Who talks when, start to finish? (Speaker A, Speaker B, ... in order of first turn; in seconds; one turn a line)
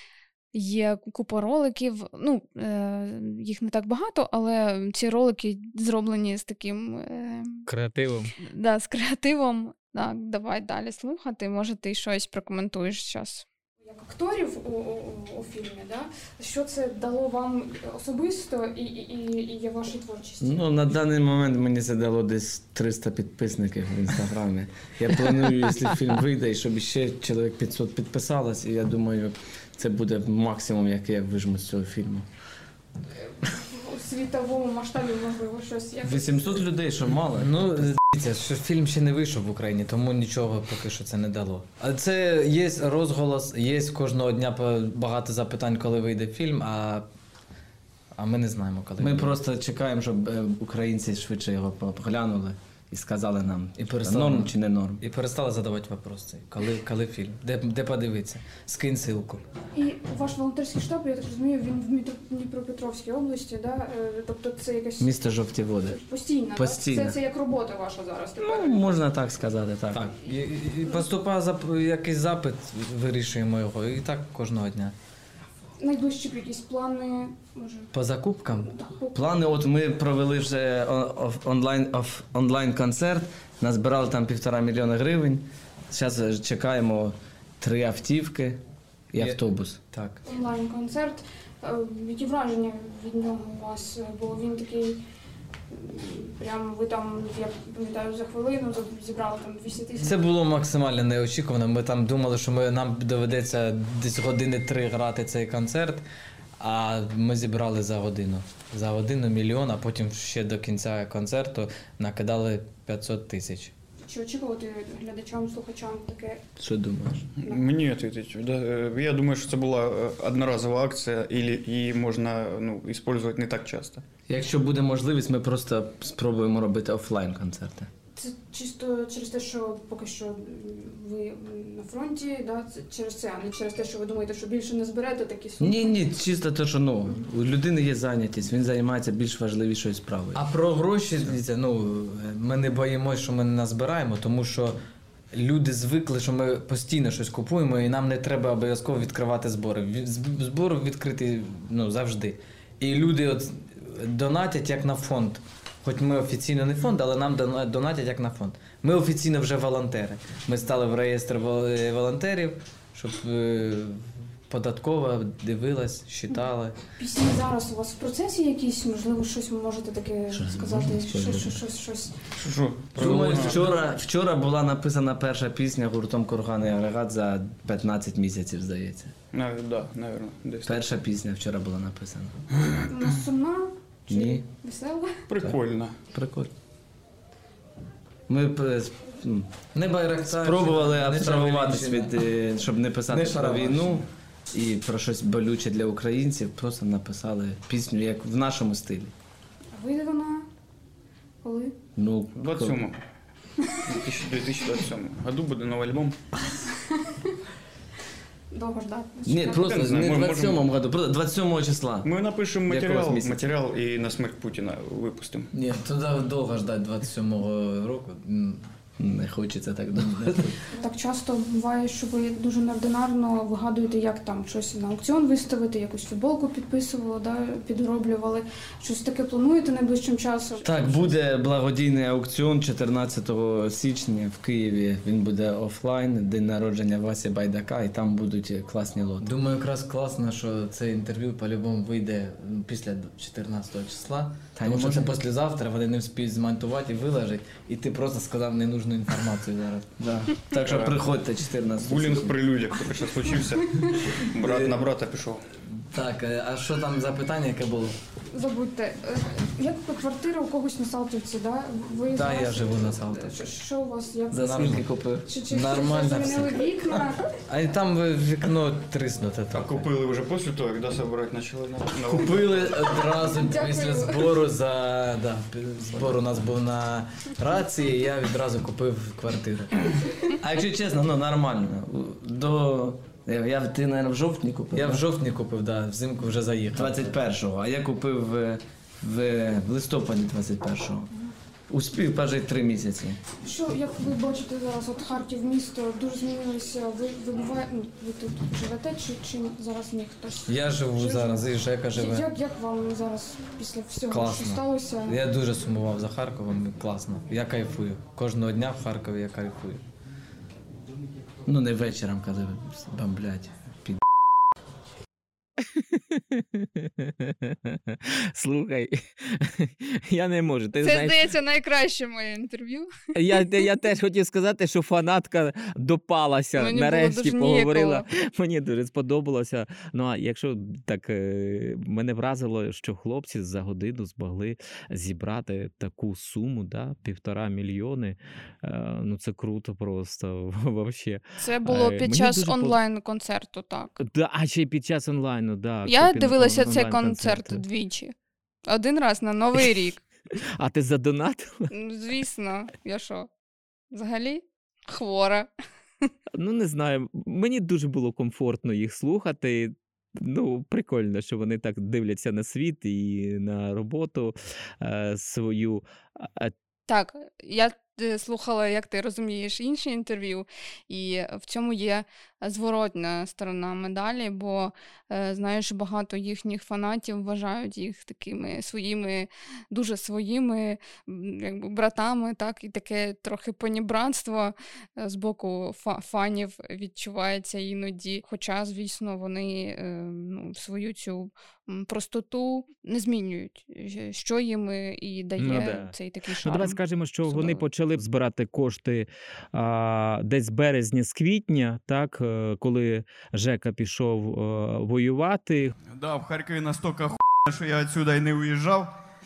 Speaker A: 0.5-7.6
Speaker B: 7.7-8.3
Speaker A: 8.4-20.6
Speaker C: 20.4-32.2
Speaker A: 33.4-36.4
Speaker C: 36.0-37.5
Speaker D: 37.4-47.0
Speaker D: 48.1-49.4
Speaker C: 49.0-55.0
Speaker D: 53.8-59.4
Speaker A: 59.7-65.1
Speaker C: 65.0-66.0
Speaker A: 65.8-68.9
Speaker C: 66.5-67.2
Speaker C: 68.4-70.1
Speaker D: 69.9-74.9
Speaker A: 75.8-77.9
Speaker D: 77.9-78.7
Speaker A: 78.6-79.1
Speaker C: 79.1-88.6
Speaker C: 89.1-89.8
Speaker D: 89.2-90.2
Speaker A: 90.2-95.0
Speaker A: 95.7-100.1
Speaker D: 100.0-106.0
Speaker D: 106.6-113.7
Speaker A: 114.0-116.4
Speaker C: 116.6-117.3
Speaker E: 117.4-124.0
Speaker C: 124.3-127.9
Speaker A: 128.2-135.9
Speaker C: 135.6-140.4
Speaker D: 140.3-144.8
Speaker D: 145.3-166.8
Speaker A: 167.0-172.1
Speaker C: 170.3-171.6
Speaker E: 172.4-173.7
Speaker C: 172.9-179.1
Speaker D: 173.0-173.6
Speaker E: 179.3-180.9
Speaker C: 180.7-182.3
Speaker E: 182.6-183.0
Speaker A: 182.9-185.2
Speaker C: 184.1-184.4
Speaker E: 185.3-186.0
Speaker C: 186.1-186.5
Speaker C: 188.3-189.5
Speaker D: 189.7-192.2
Speaker C: 190.3-199.1
Speaker D: 193.1-194.0
Speaker A: 199.7-200.5
Speaker A: 201.4-201.8
Speaker C: 201.9-202.8
Speaker E: 202.3-203.0
Speaker E: 203.8-206.2
Speaker A: 206.7-207.3
Speaker A: 208.5-209.7
Speaker C: 209.2-212.1
Speaker E: 209.6-210.7
Speaker E: 212.0-215.5
Speaker C: 212.7-213.4
Speaker D: 215.5-218.7
Speaker C: 219.0-220.6
Speaker A: 220.7-231.1
Speaker C: 230.6-239.3
Speaker D: 239.2-249.9
Speaker C: 244.6-245.1
Speaker C: 250.0-252.3
Speaker E: 250.6-251.0
Speaker E: 251.8-255.4
Speaker D: 255.8-258.0
Speaker A: 258.3-264.7
Speaker D: 262.1-263.5
Speaker C: 264.3-265.3
Speaker D: 264.4-264.9
Speaker A: 265.2-267.2
Speaker D: 265.5-269.9
Speaker E: 269.5-273.2
Speaker D: 272.1-279.8
Speaker A: 273.3-274.4
Speaker C: 280.4-285.0
Speaker D: 284.7-287.1
Speaker C: 286.8-291.1
Speaker C: 291.7-293.2
Speaker A: 293.4-305.2
Speaker D: 300.5-302.3
Speaker D: 304.1-309.8
Speaker C: 311.5-314.0
Speaker B: 315.6-321.3
Speaker A: 320.8-322.9
Speaker B: 323.1-342.8
Speaker A: 326.6-328.0
Speaker A: 341.4-344.0
Speaker B: 344.0-347.6
Speaker A: 345.9-348.1
Speaker A: 348.7-350.0
Speaker B: 350.6-351.7
Speaker A: 351.7-353.3
Speaker A: 353.9-355.5
Speaker B: 356.3-366.5
Speaker A: 366.9-397.6
Speaker B: 395.4-405.7
Speaker F: 405.9-408.9